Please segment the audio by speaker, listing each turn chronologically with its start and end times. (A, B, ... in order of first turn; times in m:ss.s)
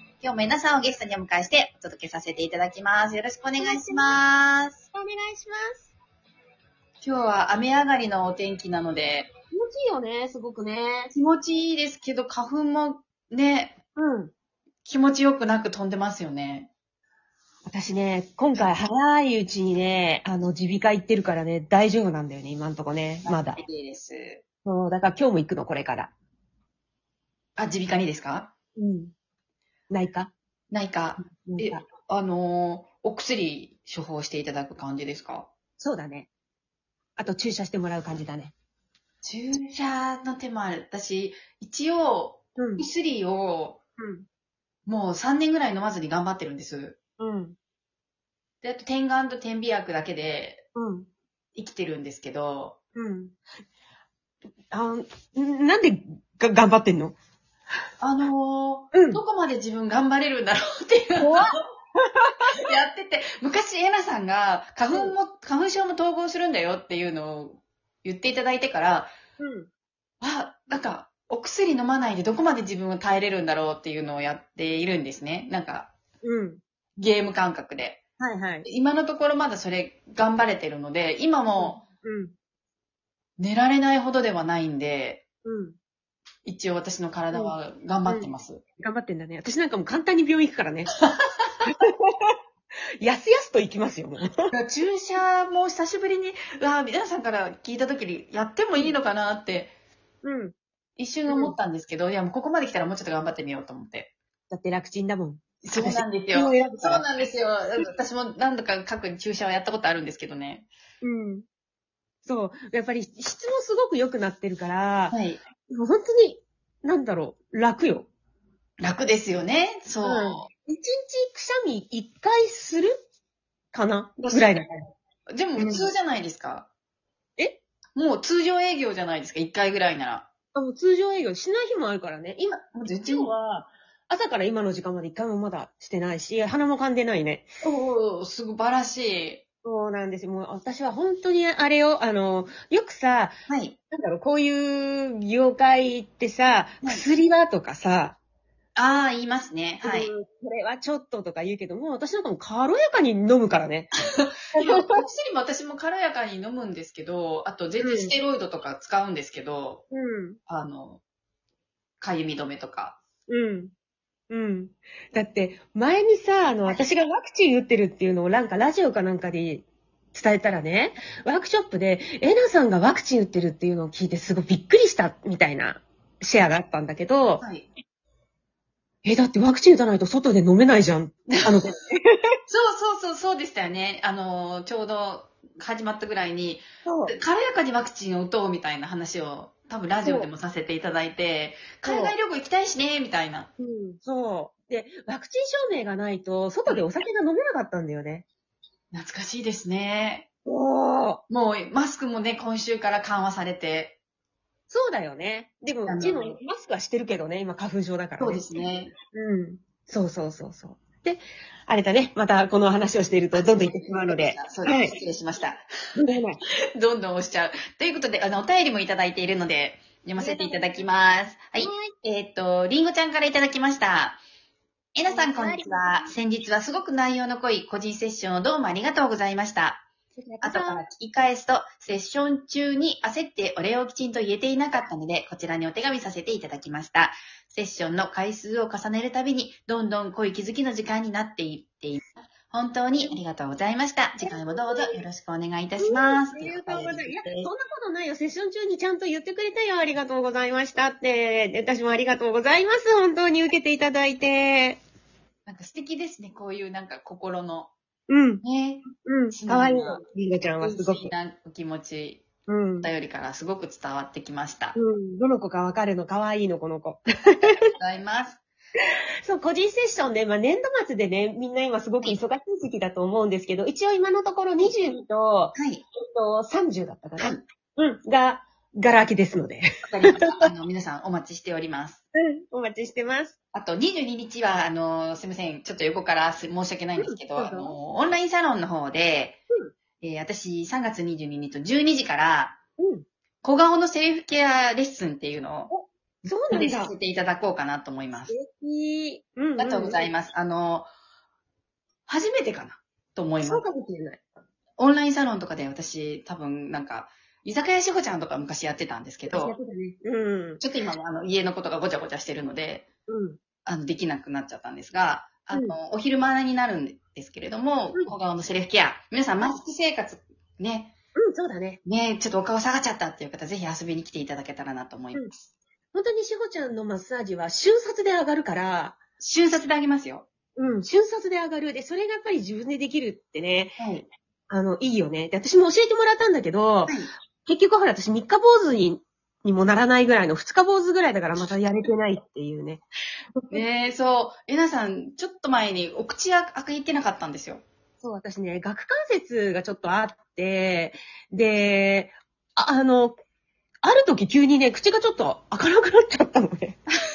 0:00.2-0:04.8 A
0:03.6-0:04.2 B
0:04.9-0:05.9 B
0:07.0-0:09.3 A
0:09.5-0:11.1 B
0:11.1-0:13.8 A
0:14.0-0:14.3 B
0:14.8-0:16.7 A
0:17.7-0:23.6 B
0:23.2-0:24.4 A
0:24.6-0:26.1 B
0:27.6-0:28.5 A
0:28.8-0:29.1 B
0:29.9-0:30.3 B
0:30.7-0:35.5 A
0:31.2-0:31.8 B
0:35.8-0:36.3 B
0:37.2-0:38.5 B
0:39.2-0:43.8 A
0:42.6-0:42.8 B
0:44.0-0:44.2 B
0:44.9-0:47.0 A
0:47.2-0:47.6 B
0:48.6-0:50.6 A
0:50.7-0:51.1 B
0:51.6-0:52.8 A
0:52.9-0:53.3 B
0:54.7-0:57.1 B
0:58.0-1:01.5 A
0:58.9-0:59.2 B
1:01.2-1:02.5 B
1:02.6-1:09.1 A
1:04.9-1:05.2 B
1:09.4-1:09.7 B
1:10.2-1:15.9 A
1:16.2-1:16.6 B
1:17.0-1:18.0 A
1:18.2-1:18.6 B
1:18.6-1:21.8 A
1:21.6-1:22.3 B
1:23.4-1:25.2 A
1:25.4-1:25.8 B
1:26.4-1:28.6 A
1:27.3-1:30.9 B
1:31.6-1:32.3 B
1:33.0-1:34.5 B
1:34.5-1:39.7 A
1:40.2-1:40.5 B
1:41.0-1:44.1 A
1:41.3-1:41.6 B
1:44.5-1:47.0 B
1:45.6-1:50.7 A
1:51.0-1:51.4 B
1:52.2-1:55.2 B
1:55.1-1:55.4 A
1:55.7-1:58.1 B
1:58.8-2:00.5 A
2:00.0-2:02.9 B
2:03.7-2:04.7 B
2:05.3-2:06.7 A
2:05.6-2:05.9 B
2:08.0-2:10.3 A
2:10.5-2:17.5 B
2:12.7-2:13.3 A
2:17.6-2:19.4 A
2:19.6-2:23.3 B
2:23.5-2:23.8 A
2:23.9-2:28.2 B
2:28.8-2:30.1 A
2:29.8-2:33.9 B
2:34.2-2:39.8 A
2:34.5-2:35.0 B
2:37.8-2:38.1 B
2:39.9-2:40.4 B
2:40.5-2:41.0 A
2:42.0-2:43.0 A
2:43.3-2:43.7 B
2:44.3-2:57.4 B
2:57.4-2:57.6 A
2:59.0-3:02.3 B
3:02.5-3:13.5 A
3:06.8-3:07.2 B
3:11.8-3:12.1 B
3:13.6-3:18.2 B
3:18.9-3:20.3 A
3:20.4-3:21.2 B
3:21.3-3:24.0 A
3:24.7-3:28.6 B
3:25.8-3:26.4 A
3:28.2-3:28.9 A
3:29.1-3:34.9 B
3:33.3-3:35.6 A
3:36.0-3:36.4 B
3:36.8-3:44.2 A
3:40.2-3:40.6 B
3:41.6-3:41.9 B
3:44.9-3:49.8 A
3:45.0-3:46.1 B
3:50.2-3:50.8 B
3:50.4-4:07.5 A
4:04.2-4:05.0 B
4:05.8-4:14.8 B
4:15.4-4:17.7 A
4:18.1-4:18.4 B
4:18.4-4:20.0 A
4:19.0-4:21.1 B
4:20.6-4:22.2 A
4:22.5-4:22.9 B
4:22.8-4:24.8 A
4:24.8-4:27.6 B
4:27.5-4:28.4 A
4:29.2-4:40.3 B
4:35.5-4:35.8 A
4:39.8-4:42.0 A
4:42.1-4:43.3 B
4:43.5-4:49.4 A
4:47.0-4:47.7 B
4:50.0-4:52.6 A
4:52.8-4:53.0 B
4:53.4-4:55.7 A
4:55.7-4:56.9 B
4:56.5-4:58.3 A
4:58.3-5:00.1 B
4:59.6-5:00.9 A
5:02.1-5:03.6 A
5:03.4-5:04.2 B
5:04.8-5:09.5 A
5:09.3-5:10.6 B
5:10.6-5:12.9 A
5:13.1-5:13.4 B
5:13.6-5:20.9 A
5:21.2-5:21.8 B
5:21.8-5:25.4 A
5:25.9-5:29.0 B
5:29.2-5:30.3 A
5:30.6-5:33.8 B
5:33.8-5:34.0 A
5:34.5-5:42.8 B
5:43.5-5:47.6 A
5:48.0-5:53.2 B
5:53.8-5:56.8 B